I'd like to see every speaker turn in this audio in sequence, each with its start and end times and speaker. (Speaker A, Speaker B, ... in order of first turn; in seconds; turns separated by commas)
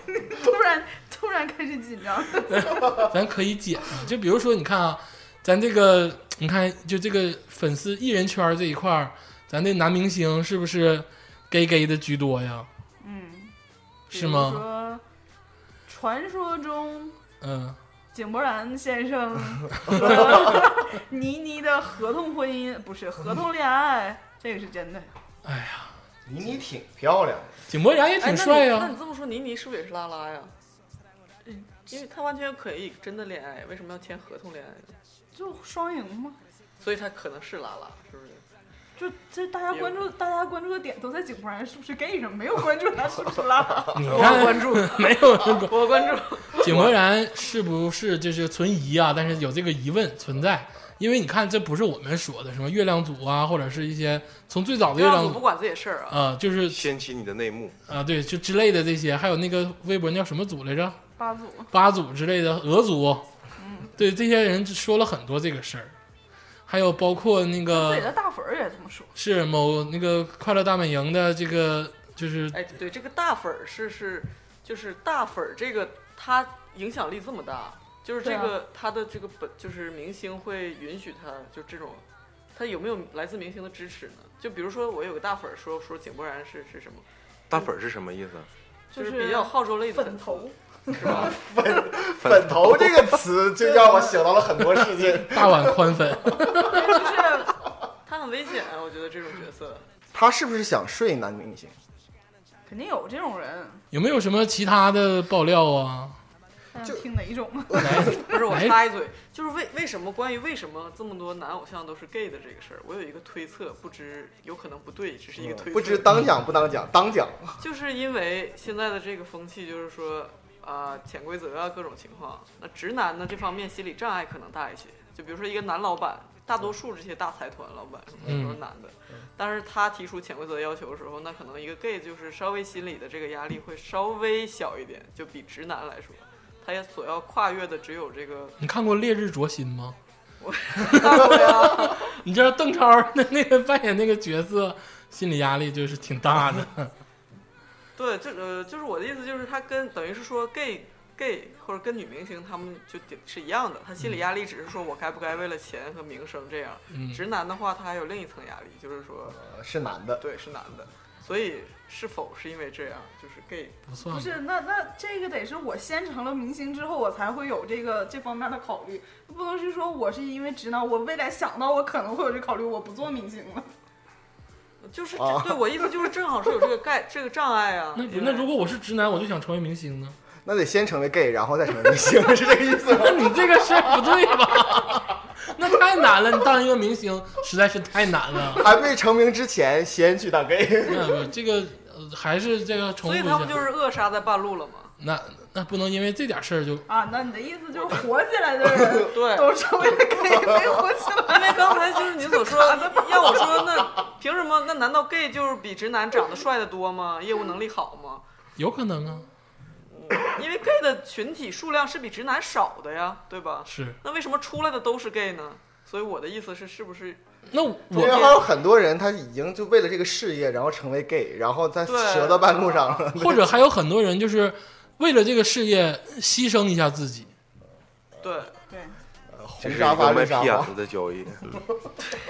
Speaker A: 0.2-2.8, Speaker B: 2.5-12.7, Speaker A: 13.0-13.5, Speaker B: 14.1-14.6, Speaker A: 14.1-15.0, Speaker A: 15.9-17.2, Speaker B: 17.4-17.8, Speaker A: 18.1-25.1, Speaker B: 19.9-20.6, Speaker B: 25.4-25.9, Speaker C: 26.3-27.6, Speaker B: 27.7-28.9, Speaker D: 28.2-30.5, Speaker D: 31.9-35.0, Speaker A: 35.4-36.4, Speaker D: 36.8-38.4, Speaker A: 39.0-44.1, Speaker D: 39.7-40.0, Speaker B: 44.0-45.9, Speaker D: 44.1-46.8, Speaker B: 46.6-55.4, Speaker D: 54.9-56.2, Speaker B: 56.1-56.9, Speaker E: 56.7-57.8, Speaker B: 57.9-61.0, Speaker A: 61.2-61.7, Speaker B: 61.7-63.3, Speaker A: 63.6-63.9, Speaker B: 64.0-65.9, Speaker B: 66.7-68.1, Speaker A: 67.7-69.1, Speaker B: 69.2-72.6, Speaker D: 72.5-82.0, Speaker A: 78.2-78.5, Speaker D: 82.5-87.0, Speaker E: 87.5-88.5, Speaker A: 88.9-90.9, Speaker D: 88.9-91.3, Speaker C: 91.0-96.4, Speaker E: 92.2-93.1, Speaker A: 93.7-94.1, Speaker B: 94.7-96.9, Speaker A: 96.7-97.5, Speaker D: 96.9-97.4, Speaker D: 98.1-99.8, Speaker C: 100.1-101.7, Speaker A: 102.7-103.8, Speaker B: 103.9-106.2, Speaker A: 106.7-108.3, Speaker C: 107.7-108.1, Speaker B: 107.8-108.8, Speaker D: 108.2-116.1, Speaker C: 115.4-117.6, Speaker D: 117.6-138.6, Speaker B: 128.2-128.6, Speaker B: 138.6-140.0, Speaker D: 140.4-142.2, Speaker B: 140.8-146.9, Speaker D: 148.0-159.4, Speaker B: 156.9-157.2, Speaker C: 159.3-160.2, Speaker D: 160.2-163.8, Speaker B: 163.9-164.4, Speaker A: 164.1-173.7, Speaker D: 174.8-178.5, Speaker C: 175.2-175.9, Speaker B: 178.0-180.2, Speaker C: 180.4-184.5, Speaker B: 182.9-188.7, Speaker C: 188.5-191.2, Speaker B: 190.9-193.7, Speaker D: 193.0-194.9, Speaker B: 195.0-196.9, Speaker A: 196.9-203.6, Speaker D: 199.1-199.6, Speaker D: 201.3-208.2, Speaker B: 208.6-209.3, Speaker D: 209.9-217.2, Speaker B: 213.7-214.0, Speaker B: 217.5-218.4, Speaker C: 217.9-223.6, Speaker D: 217.9-218.4, Speaker D: 221.8-223.0, Speaker B: 223.2-227.3, Speaker D: 228.2-228.6, Speaker A: 228.7-228.9, Speaker C: 229.3-230.7, Speaker E: 229.6-231.6